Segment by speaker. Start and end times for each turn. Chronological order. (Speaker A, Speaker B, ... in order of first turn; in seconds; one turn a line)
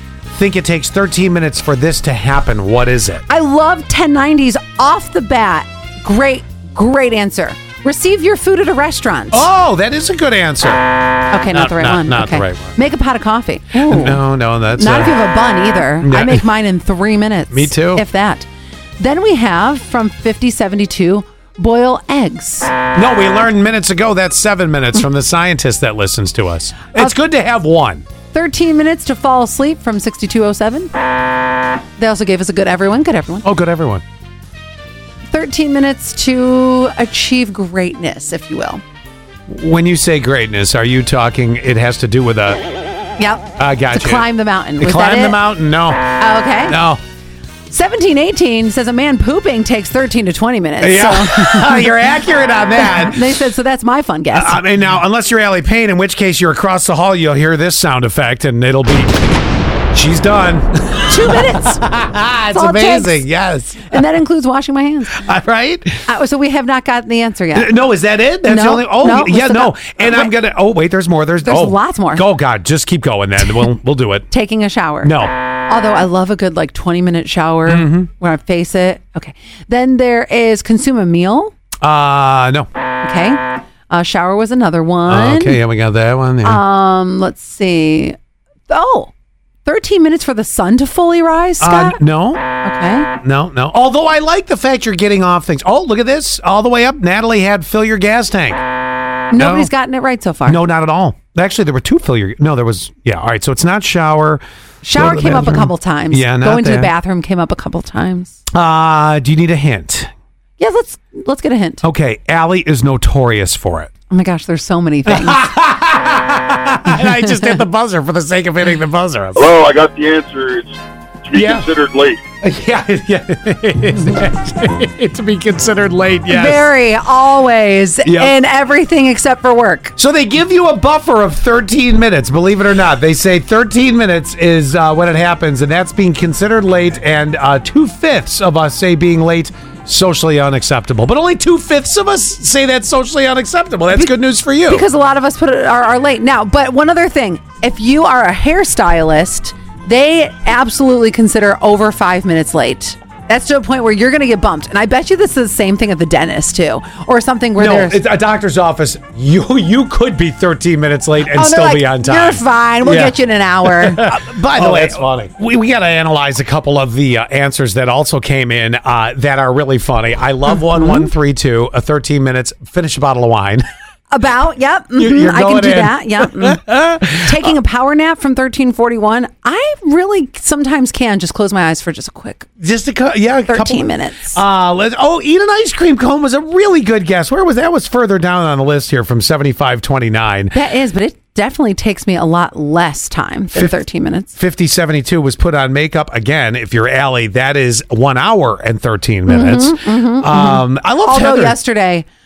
Speaker A: 0.3-3.2
Speaker B: 3.3-9.5
Speaker A: 9.3-10.9
Speaker B: 11.3-18.5
Speaker A: 11.5-12.8
Speaker A: 13.8-15.2
Speaker A: 16.0-16.4
Speaker A: 17.5-18.0
Speaker B: 19.0-22.7
Speaker A: 22.9-28.0
Speaker B: 28.3-30.9
Speaker B: 32.0-33.5
Speaker A: 33.4-34.0
Speaker B: 35.3-38.8
Speaker A: 39.5-42.6
Speaker B: 43.2-45.4
Speaker A: 43.6-44.2
Speaker A: 44.8-47.0
Speaker B: 46.2-46.8
Speaker B: 47.7-52.0
Speaker A: 50.8-53.3
Speaker B: 52.8-54.6
Speaker A: 54.3-59.2
Speaker A: 59.9-64.0
Speaker B: 61.1-61.8
Speaker B: 62.5-63.3
Speaker B: 63.9-65.2
Speaker A: 65.1-66.1
Speaker B: 66.1-67.7
Speaker A: 67.5-74.3
Speaker B: 68.4-70.3
Speaker B: 71.4-72.2
Speaker B: 74.3-81.5
Speaker A: 75.0-75.3
Speaker A: 77.7-78.1
Speaker A: 81.8-82.7
Speaker B: 83.0-85.6
Speaker A: 85.1-86.6
Speaker B: 86.4-88.2
Speaker B: 88.7-89.1
Speaker B: 89.7-92.0
Speaker A: 91.6-92.4
Speaker B: 92.6-93.1
Speaker A: 93.2-98.6
Speaker B: 99.3-100.6
Speaker A: 99.3-99.7
Speaker A: 100.5-104.4
Speaker B: 104.8-108.4
Speaker A: 105.0-106.9
Speaker A: 108.5-110.1
Speaker B: 110.6-111.8
Speaker A: 111.8-113.9
Speaker B: 114.1-115.5
Speaker A: 115.1-119.5
Speaker B: 116.9-117.6
Speaker C: 119.4-122.2
Speaker A: 121.3-121.7
Speaker A: 122.4-126.7
Speaker B: 126.3-129.9
Speaker A: 128.1-128.3
Speaker A: 130.0-144.9
Speaker B: 144.7-158.0
Speaker A: 157.6-173.6
Speaker B: 161.2-165.0
Speaker B: 170.8-171.1
Speaker B: 174.1-182.5
Speaker A: 175.0-177.5
Speaker A: 182.6-190.6
Speaker B: 183.5-184.4
Speaker B: 190.5-194.3
Speaker A: 194.3-201.6
Speaker B: 199.3-202.1